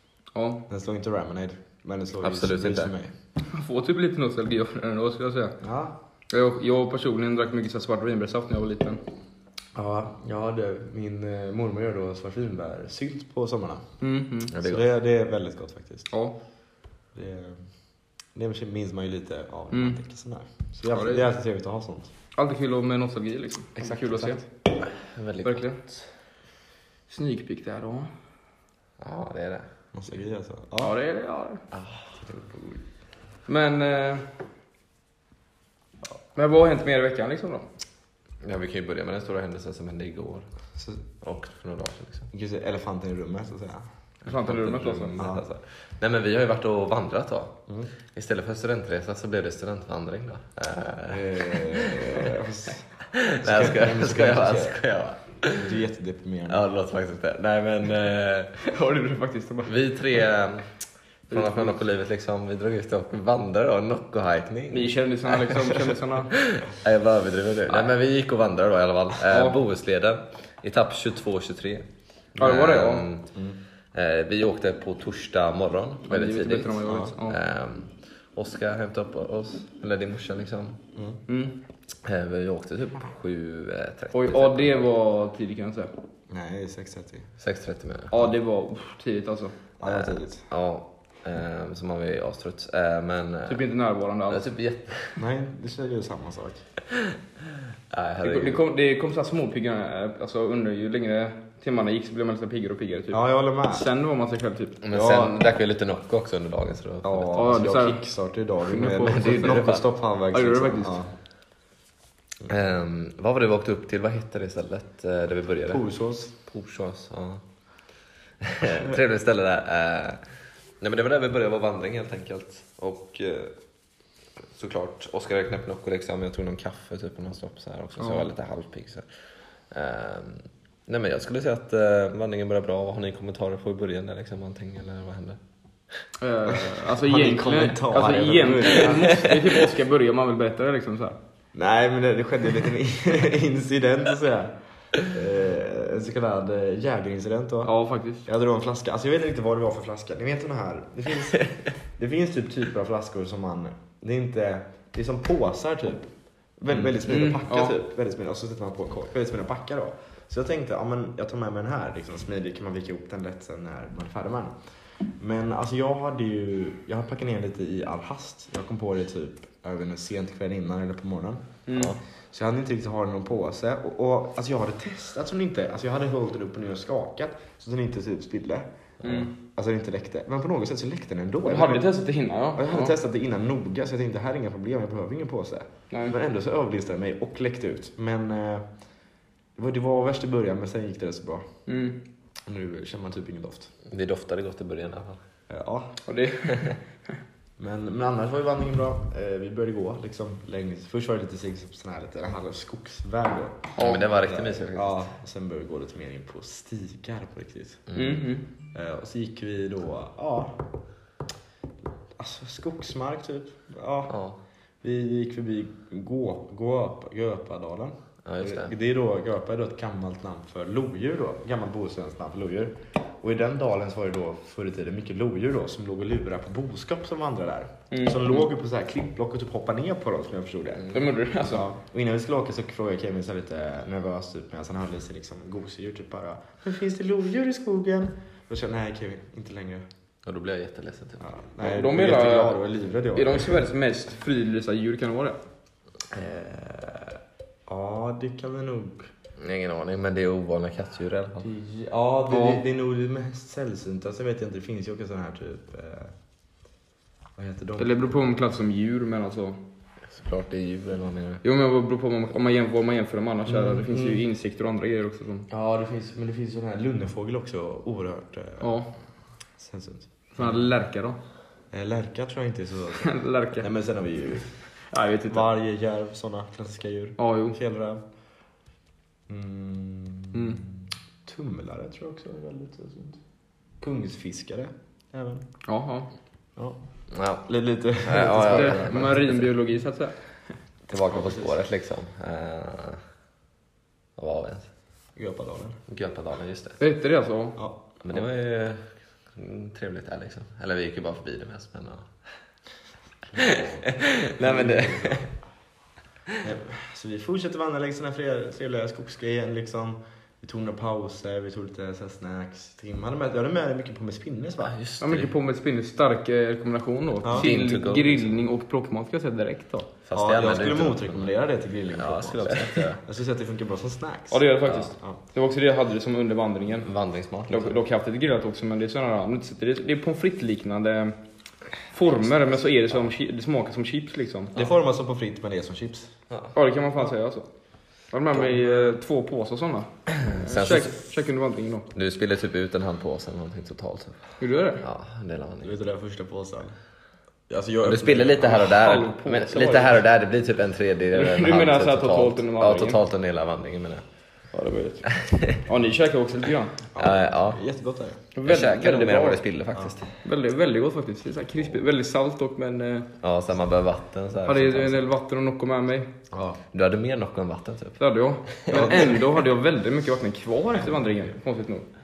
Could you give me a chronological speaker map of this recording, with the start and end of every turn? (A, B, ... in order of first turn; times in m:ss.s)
0:00.3-0:00.6 A
0:00.7-0:03.1 B
0:02.2-0:02.9 C
0:03.5-0:05.6 A
0:05.6-0:06.0 B
0:06.3-0:09.0 A
0:09.7-0:13.8 B
0:14.0-0:14.5 A
0:14.5-0:14.8 C
0:14.6-0:16.1 B
0:16.1-0:16.4 A
0:17.1-0:17.6 B
0:18.3-0:22.1 B
0:19.7-0:20.0 A
0:20.9-0:21.2 A
0:22.3-0:24.4 A
0:23.8-0:24.3 B
0:24.8-0:26.0 C
0:25.4-0:25.8 A
0:27.1-0:28.1 A
0:29.0-0:29.7 C
0:29.9-0:31.0 B
0:30.8-0:31.6 A
0:31.7-0:32.0 C
0:32.2-0:32.8 B
0:33.5-0:34.2 A
0:36.3-0:37.7 A
0:38.4-0:40.5 C
0:41.2-0:42.3 C
0:42.3-0:43.9 B
0:44.2-0:47.6 C
0:44.2-0:45.1 A
0:45.2-0:45.4 B
0:48.1-0:52.2 C
0:51.1-0:52.8 B
0:53.1-0:55.7 C
0:53.4-0:54.8 B
0:55.5-0:56.6 B
0:56.5-0:58.6 C
0:58.6-0:59.8 A
0:59.6-1:00.7 C
1:01.3-1:01.7 A
1:01.3-1:11.8 C
1:04.7-1:06.3 A
1:09.3-1:09.6 A
1:12.4-1:13.0 A
1:12.4-1:13.3 C
1:13.3-1:13.6 B
1:13.9-1:20.8 C
1:16.1-1:17.4 A
1:21.3-1:21.6 A
1:22.0-1:24.8 C
1:24.1-1:25.9 A
1:26.3-1:27.3 B
1:27.4-1:28.2 C
1:28.1-1:29.5 A
1:29.8-1:30.4 B
1:29.8-1:33.6 C
1:33.5-1:34.5 A
1:34.3-1:35.2 C
1:35.2-1:36.6 B
1:36.9-1:37.2 C
1:37.9-1:38.6 C
1:38.2-1:44.8 A
1:43.1-1:43.9 B
1:44.8-1:47.4 C
1:44.9-1:45.4 B
1:47.0-1:51.1 B
1:47.3-1:48.1 A
1:48.6-1:49.7 A
1:49.0-1:49.8 C
1:50.3-1:51.0 A
1:52.5-1:55.8 C
1:55.7-1:56.3 B
1:56.4-1:57.4 C
1:58.4-2:00.2 C
2:00.8-2:03.5 C
2:04.5-2:09.0 C
2:08.0-2:08.3 A
2:09.7-2:15.4 C
2:16.2-2:21.2 A
2:16.5-2:19.4 B
2:21.5-2:27.7 B
2:27.6-2:28.2 A
2:28.2-2:36.1 B
2:36.6-2:44.5 B
2:36.9-2:37.7 A
2:45.1-2:51.6 B
2:51.7-2:51.9 A
2:51.7-2:52.0 C
2:52.3-3:01.9 B
2:59.0-2:59.3 C
2:59.0-2:59.3 A
3:01.4-3:02.9 A
3:02.6-3:08.6 B
3:05.9-3:06.2 A
3:09.6-3:11.5 B
3:11.7-3:12.0 A
3:12.5-3:13.7 B
3:13.9-3:15.2 C
3:15.5-3:16.0 B
3:16.1-3:16.7 A
3:17.6-3:23.7 B
3:23.8-3:24.0 A
3:23.8-3:25.1 C
3:24.2-3:27.9 B
3:27.9-3:28.2 C
3:27.9-3:28.4 A
3:28.7-3:30.6 B
3:32.2-3:34.1 B
3:34.1-3:34.4 C
3:34.8-3:59.8 B
3:38.2-3:38.7 C
3:47.9-3:48.4 A
3:50.9-3:51.7 A
4:00.2-4:01.2 C
4:01.2-4:03.6 B
4:01.6-4:02.6 A
4:03.1-4:05.4 A
4:06.1-4:09.1 B
4:09.4-4:11.5 C
4:11.4-4:16.1 B
4:12.3-4:12.6 A
4:17.4-4:18.2 B
4:17.8-4:19.6 A
4:20.1-4:21.4 C
4:21.4-4:25.5 A
4:23.4-4:24.2 B
4:25.5-4:28.8 B
4:28.6-4:28.9 A
4:29.6-4:30.7 B
4:30.3-4:31.2 A
4:31.7-4:34.5 B
4:33.0-4:33.7 A
4:34.9-4:35.4 A
4:35.3-4:38.0 B
4:37.2-4:37.6 A
4:39.3-4:43.2 B
4:40.3-4:40.6 A
4:43.8-4:45.4 B
4:45.6-4:46.1 A
4:47.1-4:47.5 C
4:47.4-4:49.4 B
4:48.0-4:49.4 C
4:48.3-4:50.2 A
4:50.9-4:53.0 C
4:51.1-4:51.5 B
4:54.2-4:54.7 C
4:55.2-4:55.8 B
4:55.9-4:56.8 C
4:56.8-4:57.6 A
4:58.0-5:02.1 C
5:03.3-5:05.3 B
5:03.3-5:05.3 C
5:06.4-5:14.7 B
5:14.6-5:15.3 C
5:15.0-5:19.9 A
5:17.2-5:17.5 B
5:17.3-5:18.3 C
5:20.1-5:21.3 C
5:20.1-5:25.2 B
5:21.9-5:23.0 C
5:24.3-5:26.9 A
5:26.8-5:27.8 C
5:27.5-5:31.2 A
5:31.9-5:34.6 A
5:34.5-5:36.1 B
5:36.5-5:37.4 A
5:38.1-5:41.9 A
5:38.3-5:39.0 B
5:40.1-5:40.9 C
5:41.9-5:44.2 C
5:44.4-5:44.8 A
5:44.8-5:45.7 C
5:45.6-5:46.7 B
5:47.5-5:48.7 B
5:47.8-5:54.0 C
5:48.5-5:50.0 A
5:51.1-5:53.0 A
5:54.5-5:56.8 A
5:55.2-5:55.6 C
5:56.9-5:58.2 B
5:57.0-5:57.6 C
5:58.3-5:59.4 A
5:58.4-6:00.1 C
6:00.2-6:03.1 A
6:03.2-6:05.1 C
6:04.5-6:06.1 A
6:06.3-6:06.6 B
6:06.7-6:08.0 C
6:08.0-6:11.8 A
6:08.5-6:09.1 C
6:08.7-6:09.2 B